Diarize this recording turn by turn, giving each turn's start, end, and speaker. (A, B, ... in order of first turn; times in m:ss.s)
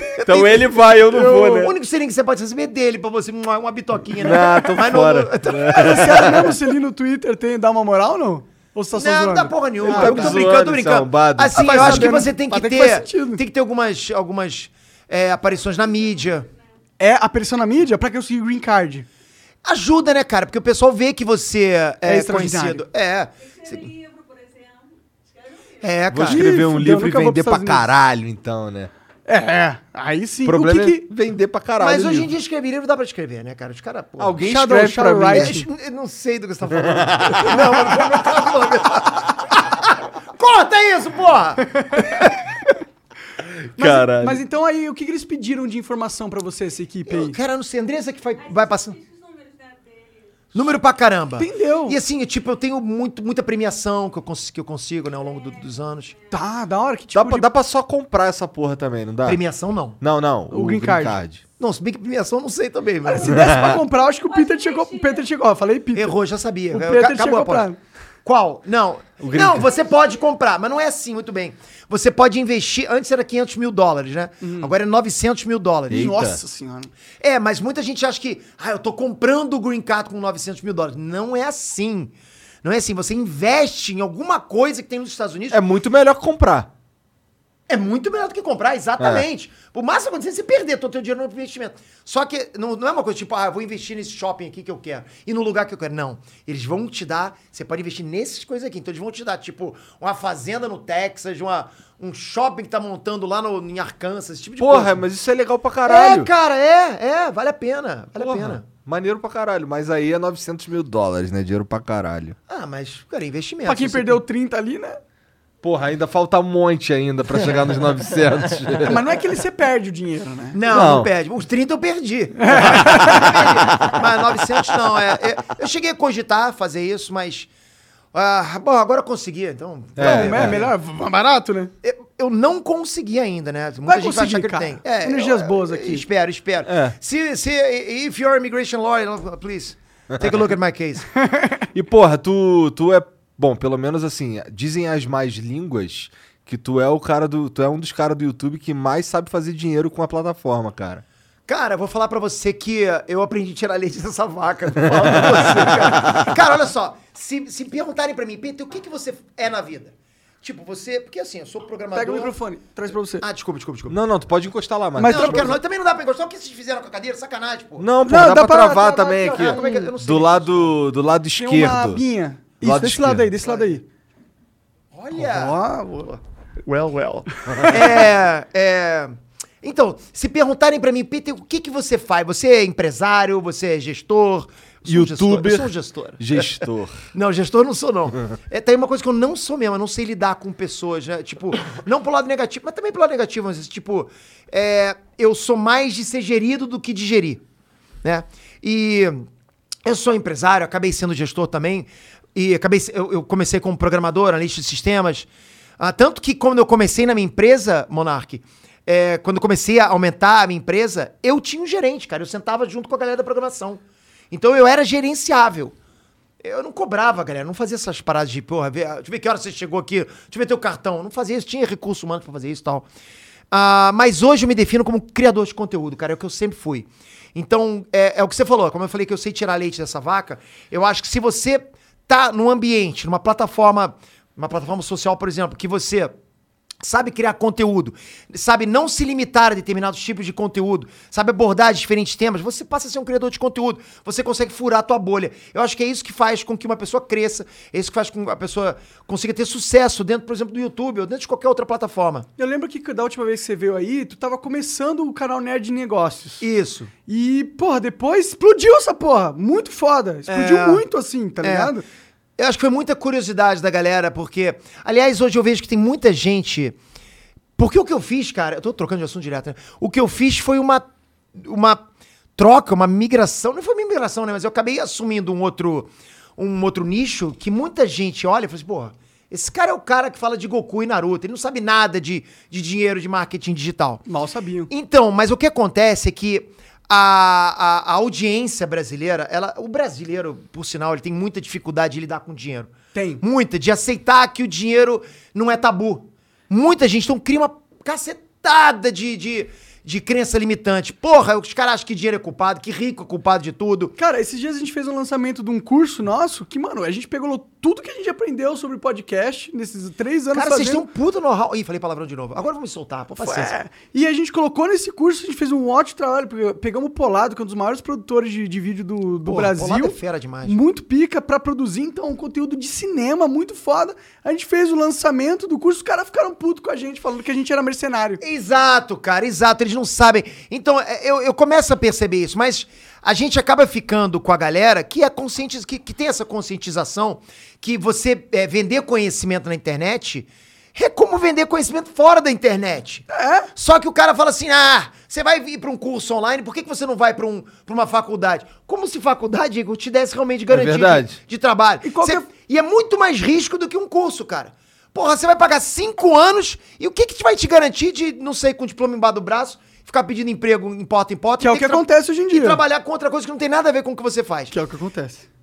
0:00.1-0:06.5 A
0:00.2-0:01.7 B
0:01.1-0:01.5 C
0:04.1-0:06.5 B
0:05.6-0:10.4 C
0:08.9-0:16.5 A
0:09.8-0:12.3 B
0:11.6-0:13.4 C
0:15.5-0:16.7 D
0:17.0-0:19.0 C
0:19.6-0:23.9 A
0:22.0-0:22.8 C
0:23.4-0:26.1 D
0:25.8-0:26.4 A
0:26.1-0:28.9 B
0:26.2-0:27.9 C
0:29.3-0:31.1 C
0:30.4-0:32.3 B
0:31.8-0:42.3 A
0:34.2-0:35.6 B
0:34.4-0:35.7 C
0:36.7-0:37.6 B
0:41.8-0:42.2 C
0:43.7-0:44.4 B
0:43.8-0:47.4 C
0:47.1-0:49.0 A
0:48.4-0:50.8 D
0:50.5-0:56.1 A
0:51.4-0:52.0 C
0:55.2-0:56.4 D
0:56.3-0:57.5 C
0:57.1-0:59.4 B
0:59.2-1:00.0 A
1:00.0-1:01.4 B
1:00.5-1:01.2 C
1:01.6-1:03.4 A
1:03.0-1:06.2 C
1:03.3-1:03.8 B
1:03.9-1:05.3 D
1:05.9-1:07.7 A
1:06.7-1:07.8 C
1:08.2-1:16.1 A
1:09.2-1:09.7 B
1:09.7-1:10.2 D
1:14.4-1:14.7 C
1:15.9-1:16.9 C
1:15.9-1:16.4 B
1:17.2-1:25.6 A
1:25.5-1:26.7 B
1:27.7-1:45.0 A
1:29.0-1:29.2 B
1:44.6-1:46.3 B
1:45.8-1:48.7 A
1:48.2-1:52.4 B
1:52.5-1:54.2 A
1:53.6-1:55.0 C
1:55.6-1:59.0 B
1:58.8-2:00.6 C
2:00.5-2:07.5 A
2:00.7-2:01.1 B
2:02.4-2:03.5 C
2:08.1-2:10.7 A
2:10.0-2:10.6 B
2:10.0-2:11.7 C
2:11.8-2:21.1 A
2:13.8-2:16.0 C
2:16.6-2:17.0 B
2:20.1-2:20.5 B
2:21.2-2:21.6 C
2:21.7-2:31.0 B
2:31.5-2:42.3 A
2:41.9-2:43.2 C
2:43.2-2:44.0 A
2:43.9-2:45.5 B
2:45.0-2:45.5 C
2:45.1-2:47.9 A
2:47.8-2:52.0 B
2:48.0-2:49.9 C
2:49.1-2:50.7 A
2:51.4-2:53.8 C
2:52.6-2:53.3 B
2:53.4-2:53.8 A
2:54.9-2:55.6 A
2:55.1-2:56.2 C
2:56.1-3:06.6 A
3:04.8-3:07.0 B
3:07.1-3:17.4 A
3:18.0-3:19.2 A
3:19.8-3:25.3 A
3:25.8-3:35.7 A
3:36.4-3:42.8 A
3:43.5-3:56.1 A
3:56.8-4:12.3 A
4:12.4-4:16.4 C
4:16.4-4:16.9 A
4:17.1-4:21.8 C
4:20.3-4:20.8 A
4:21.4-4:21.7 A
4:22.4-4:26.8 A
4:27.6-4:31.8 A
4:32.4-4:44.0 A
4:44.1-4:44.7 C
4:44.7-5:03.9 A
4:52.9-4:53.2 C
5:04.0-5:10.8 C
5:10.3-5:13.5 A
5:13.2-5:28.2 C
5:19.2-5:20.6 A
5:28.2-6:04.5 A
5:43.1-5:43.5 C
5:50.5-5:51.2 B
5:51.8-5:52.2 C
6:01.4-6:02.6 C
6:04.5-6:05.2 C